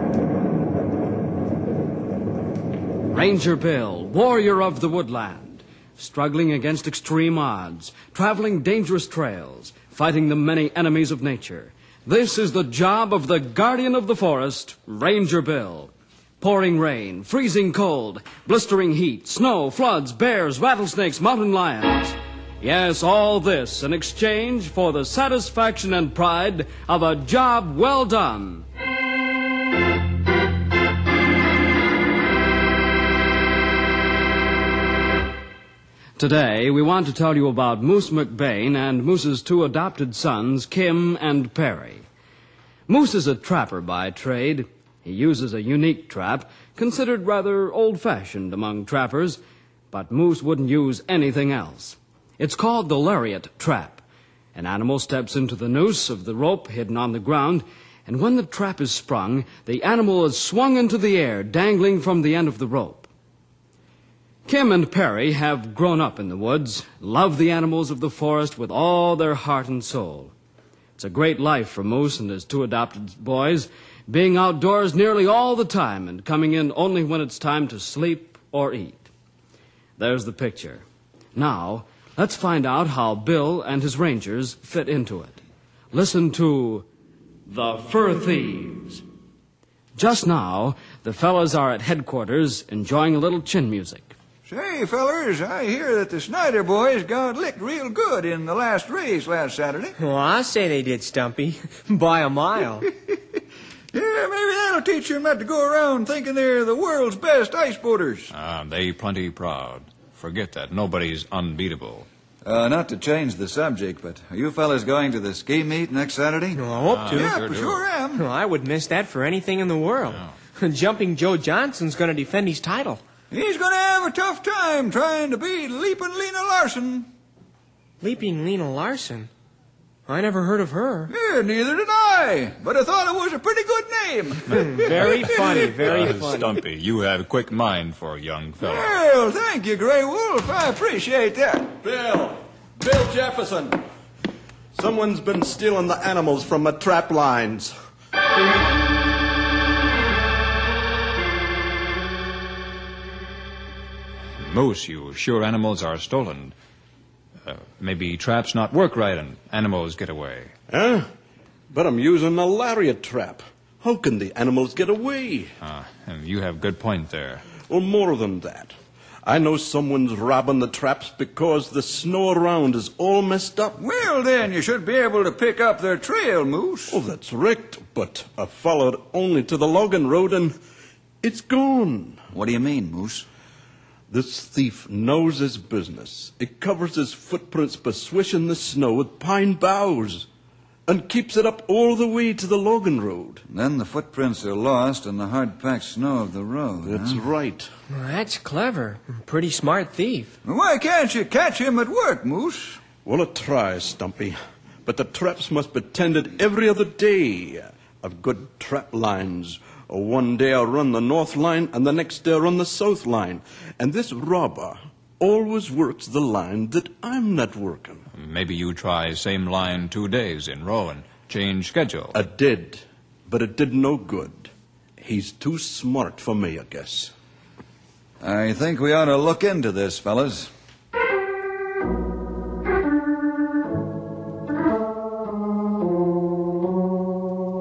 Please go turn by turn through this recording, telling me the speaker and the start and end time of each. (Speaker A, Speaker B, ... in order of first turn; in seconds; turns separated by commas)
Speaker A: 3.1-28.7, Speaker A: 36.2-42.1, Speaker A: 42.9-49.4, Speaker A: 49.9-54.0, Speaker A: 54.5-63.1, Speaker A: 64.5-70.3, Speaker A: 71.0-79.1, Speaker A: 80.0-80.8, Speaker A: 81.3-85.4, Speaker A: 85.9-86.9, Speaker A: 87.5-89.0, Speaker A: 90.0-94.1, Speaker B: 94.5-100.0, Speaker C: 100.0-102.9, Speaker B: 103.9-108.3, Speaker D: 108.3-112.1, Speaker B: 112.5-118.2, Speaker C: 116.5-117.4, Speaker D: 116.9-117.8, Speaker C: 118.2-123.0, Speaker B: 123.3-127.1, Speaker C: 128.0-129.3, Speaker C: 130.1-131.1, Speaker B: 131.1-135.7, Speaker C: 134.5-136.6, Speaker D: 134.9-138.9, Speaker B: 138.6-141.7, Speaker E: 141.8-143.8, Speaker E: 144.8-147.7, Speaker D: 154.4-156.5, Speaker D: 157.4-160.5, Speaker E: 160.7-161.1, Speaker E: 161.7-165.6, Speaker D: 165.6-167.4, Speaker E: 167.7-173.8, Speaker B: 173.8-177.0, Speaker E: 176.9-180.6, Speaker E: 181.2-182.2, Speaker B: 182.3-183.3, Speaker E: 184.1-190.3, Speaker E: 190.9-193.4, Speaker B: 193.5-197.2, Speaker E: 196.8-197.7, Speaker C: 197.9-200.3, Speaker B: 200.4-202.8, Speaker E: 203.0-218.1, Speaker D: 218.2-222.2, Speaker E: 222.1-227.1, Speaker B: 228.2-230.5